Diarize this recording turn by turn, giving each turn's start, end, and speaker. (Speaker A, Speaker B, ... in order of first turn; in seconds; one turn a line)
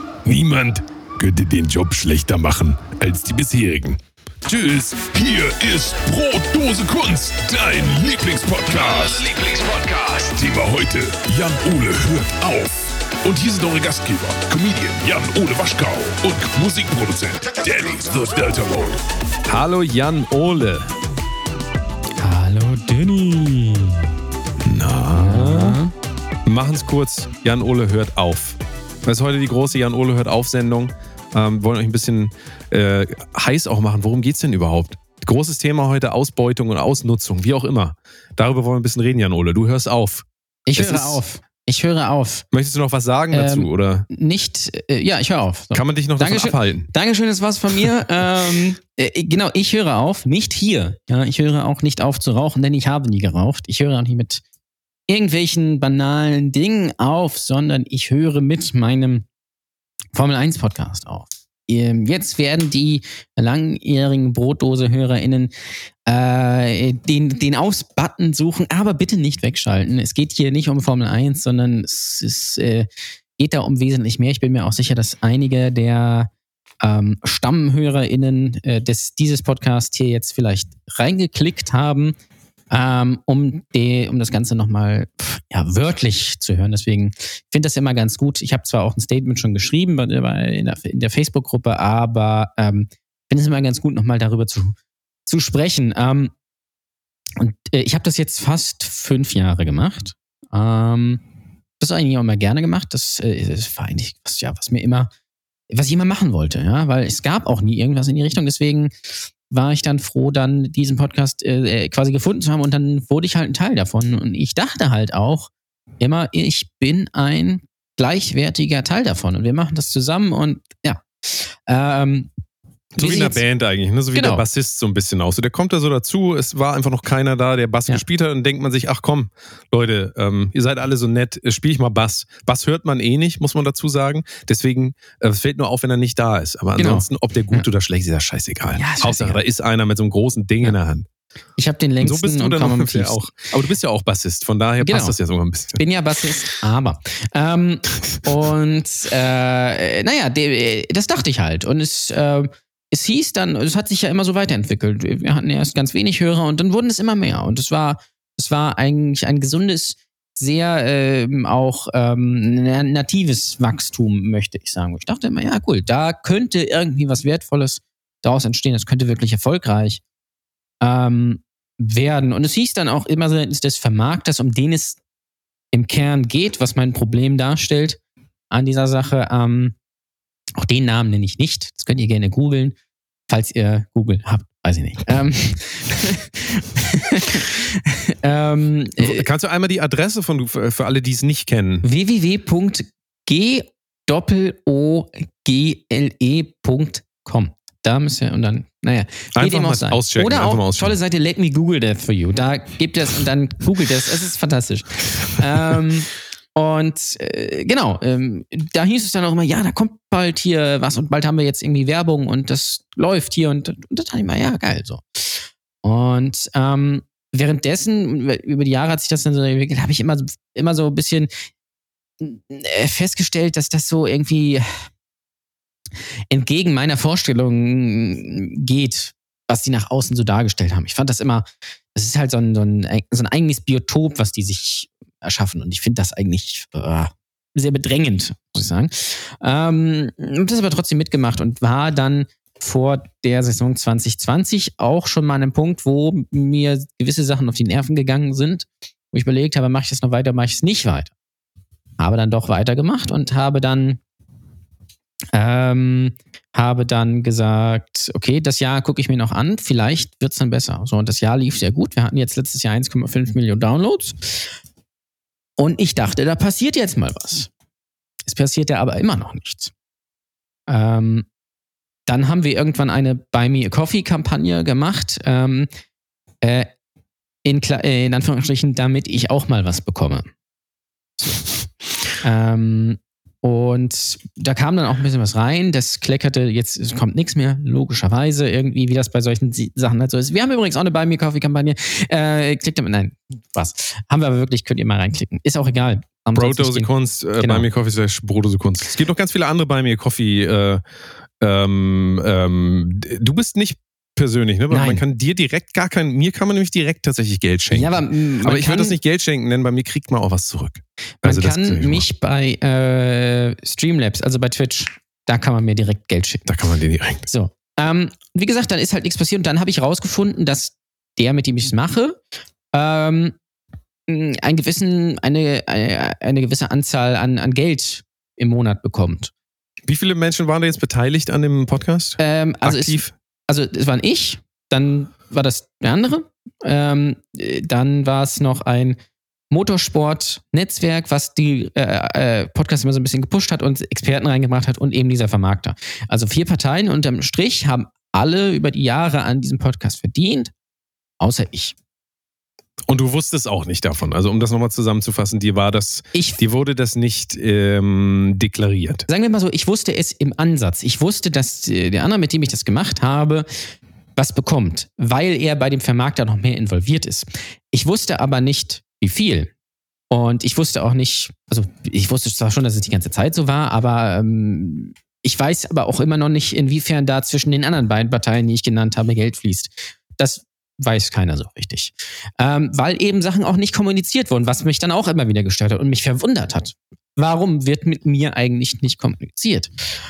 Speaker A: 0.2-12.7
Speaker A: 13.2-19.0
Speaker B: 19.5-20.9
Speaker C: 22.2-24.0
Speaker B: 24.7-25.8
Speaker C: 25.1-25.9
Speaker B: 26.4-41.2
Speaker C: 40.7-42.5
Speaker B: 42.5-44.1
Speaker C: 43.3-54.4
Speaker B: 45.7-46.9
Speaker C: 55.1-59.2
Speaker C: 60.1-65.5
Speaker C: 66.0-76.3
Speaker C: 76.8-82.1
Speaker C: 82.7-96.3
Speaker C: 97.4-101.2
Speaker C: 101.8-105.1
Speaker C: 105.7-108.9
Speaker C: 109.5-122.3
Speaker B: 122.9-141.1
Speaker C: 123.0-123.4
Speaker C: 124.1-124.4
Speaker C: 136.8-137.6
Speaker C: 138.7-139.4
Speaker C: 141.6-143.3
Speaker B: 142.0-145.8
Speaker C: 144.8-145.2
Speaker C: 145.7-170.0
Speaker C: 170.8-175.0
Speaker C: 175.7-178.0
Speaker C: 178.5-179.8
Speaker C: 180.6-182.8
Speaker C: 183.3-189.2
Speaker B: 189.0-191.8
Speaker C: 191.8-221.3
Speaker B: 199.3-201.0
Speaker C: 222.2-224.7
Speaker C: 226.3-251.1
Speaker C: 252.0-254.0
Speaker C: 255.3-264.4
Speaker C: 265.6-267.5
Speaker C: 268.2-269.7
Speaker C: 270.7-271.2
Speaker C: 272.1-275.7
Speaker C: 276.4-276.7
Speaker C: 277.4-280.3
Speaker C: 282.2-297.6
Speaker B: 296.3-300.8
Speaker B: 301.4-312.0
Speaker C: 304.7-305.0
Speaker C: 307.7-308.9
Speaker C: 311.2-316.5
Speaker B: 316.4-317.2
Speaker C: 317.3-322.2
Speaker C: 322.7-323.3
Speaker C: 324.1-329.3
Speaker B: 329.9-333.1
Speaker C: 332.2-339.0
Speaker C: 339.5-350.5
Speaker C: 351.2-351.8
Speaker B: 352.9-359.1
Speaker C: 356.1-356.4
Speaker C: 359.1-363.5
Speaker C: 364.1-369.5
Speaker C: 370.1-389.7